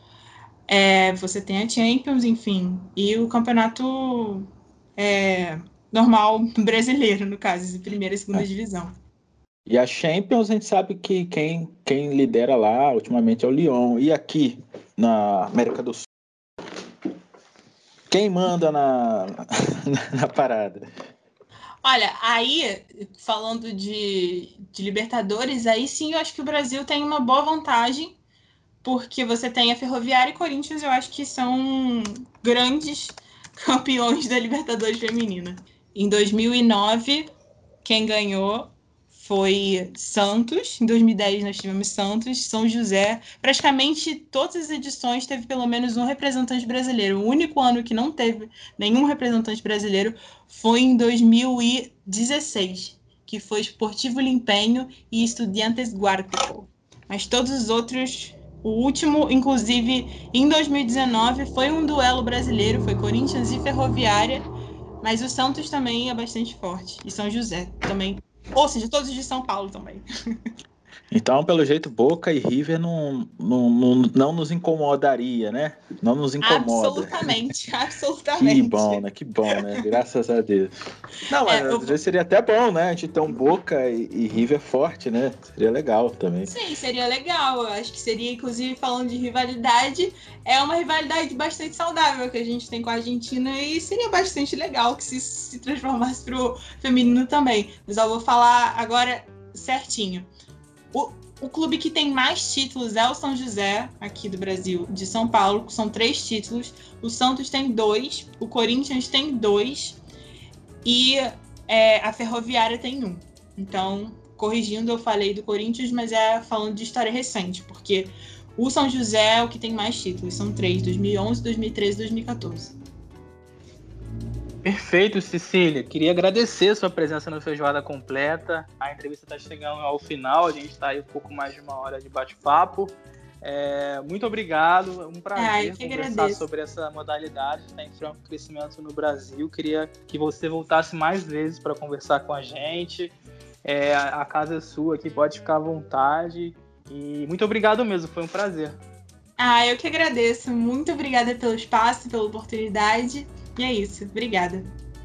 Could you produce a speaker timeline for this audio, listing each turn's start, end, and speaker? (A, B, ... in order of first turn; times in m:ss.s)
0:00.7-0:04.4 A
0:05.0-0:08.9 A
0:09.6-0:16.1 B
0:18.1-0:20.9 B
0:21.8-0:28.1 A
0:28.8-0:37.3 A
0:37.8-1:04.4 A
1:05.0-1:10.0 A
1:11.1-1:17.3 B
1:16.4-1:19.0 A
1:18.4-1:20.7 B
1:21.3-1:26.5 B
1:21.5-1:22.0 A
1:26.5-1:40.3 A
1:40.9-1:50.0 A
1:50.8-2:02.8 A
2:04.6-2:28.8 C
2:15.4-2:16.4 A
2:29.4-2:34.7 A